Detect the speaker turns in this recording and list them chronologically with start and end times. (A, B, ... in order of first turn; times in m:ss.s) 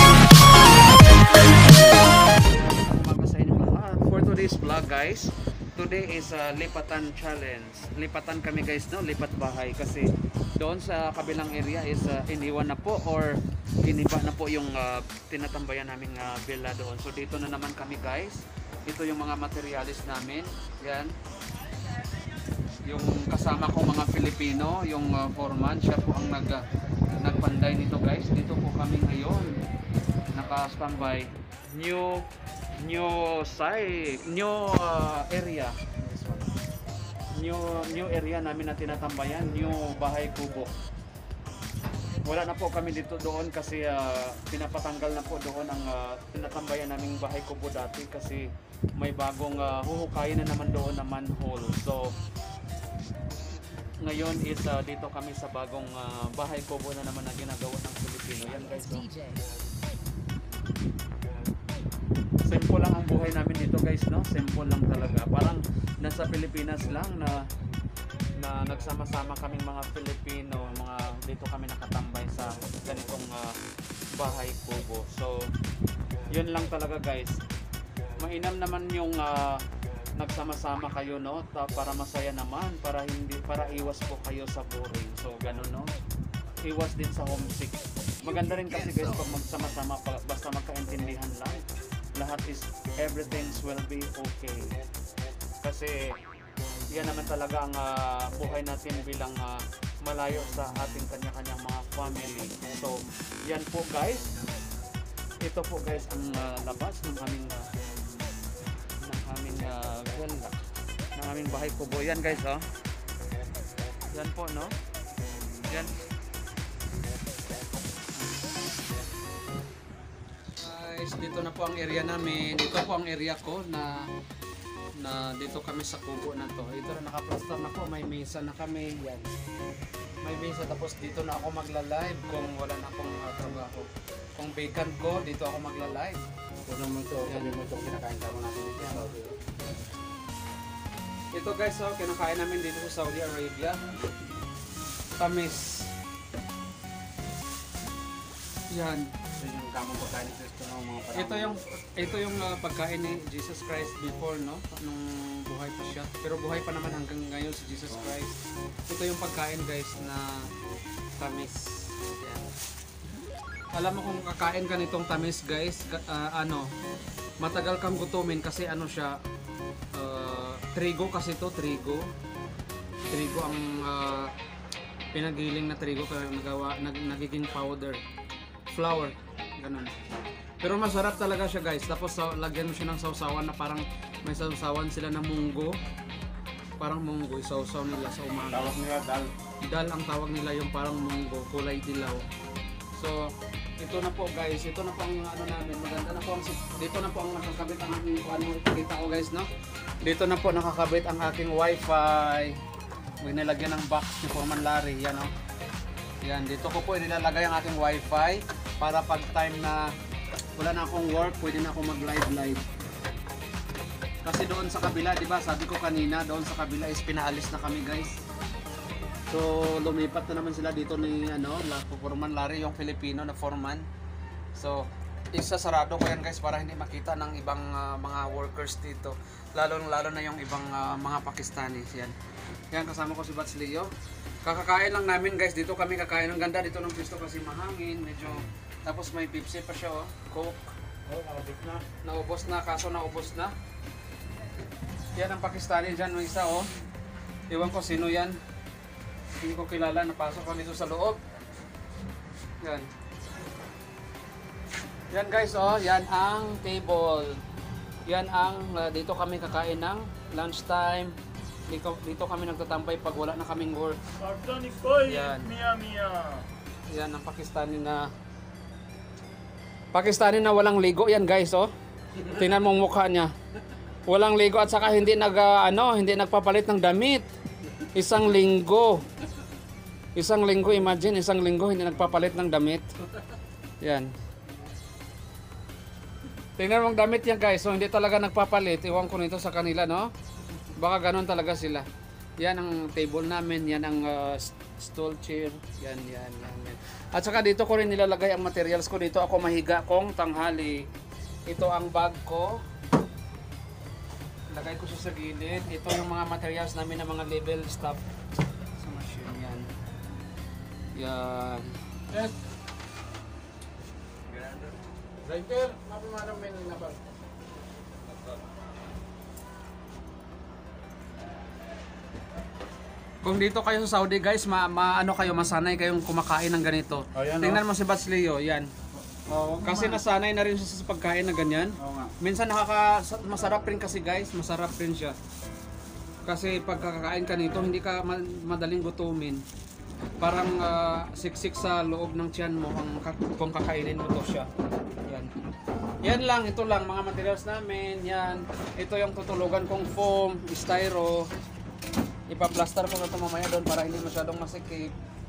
0:01.8-0:21.1 A
0:22.8-0:26.6 A
0:27.2-0:29.6 A
0:30.3-0:36.0 A
0:36.0-0:36.5 B
0:37.3-0:40.7 A
0:42.2-0:52.2 A
0:54.0-0:59.2 A
0:58.9-0:59.4 C
1:02.4-1:07.4 A
1:08.4-1:13.6 A
1:14.1-1:15.5 A
1:16.3-1:17.4 A
1:18.2-1:19.6 A
1:20.2-1:25.9 A
1:26.6-1:31.6 A
1:32.2-1:34.8 A
1:35.6-1:36.2 A
1:36.9-1:44.3 A
1:45.4-1:47.7 A
1:49.0-1:50.6 A
1:51.2-1:52.6 A
1:54.1-1:54.7 A
1:55.6-1:56.0 A
2:00.6-2:04.0 A
2:05.0-2:09.3 A
2:10.2-2:16.2 A
2:16.6-2:19.4 B
2:17.2-2:17.6 A
2:21.3-2:23.8 A
2:25.2-2:25.9 A
2:28.7-2:29.1 A
2:29.4-2:31.6 B
2:31.1-2:40.5 A
2:41.2-2:42.5 A
2:43.7-2:46.7 A
2:47.4-2:49.2 A
2:49.9-2:52.1 A
2:53.1-2:54.3 A
2:55.1-2:58.0 A
2:58.7-2:59.9 A
3:00.6-3:05.8 A
3:06.8-3:08.8 A
3:08.5-3:09.3 B
3:09.6-3:12.2 A
3:12.9-3:19.5 A
3:20.0-3:22.6 A
3:23.2-3:25.3 A
3:26.2-3:29.9 A
3:30.6-3:32.6 A
3:34.2-3:38.2 A
3:39.3-3:43.9 A
3:44.5-3:52.1 A
3:52.7-3:53.9 A
3:54.4-4:00.7 A
4:01.1-4:01.8 B
4:02.0-4:03.5 A
4:05.2-4:06.7 A
4:07.5-4:08.4 A
4:09.4-4:11.2 A
4:12.6-4:12.9 A
4:15.1-4:17.4 A
4:18.0-4:21.2 A
4:21.7-4:24.0 A
4:24.2-4:25.0 C
4:25.0-4:25.5 A
4:25.7-4:26.3 C
4:26.9-4:28.1 A
4:29.9-4:33.3 A
4:34.1-4:37.3 A
4:37.8-4:39.0 A
4:40.1-4:42.9 A
4:43.8-4:44.1 A
4:46.6-4:50.1 A
4:50.8-4:51.9 A
4:52.4-5:00.9 A
5:01.5-5:02.6 A
5:04.5-5:08.0 A
5:08.8-5:09.7 A
5:10.9-5:11.8 A
5:15.2-5:17.0 B
5:23.2-5:28.7 A
5:27.1-5:27.6 B
5:29.1-5:30.0 B
5:29.6-5:35.2 A
5:31.8-5:32.1 B
5:36.2-5:39.4 A
5:40.2-5:44.5 A
5:45.0-5:45.3 A
5:46.0-5:51.3 A
5:52.3-5:54.9 A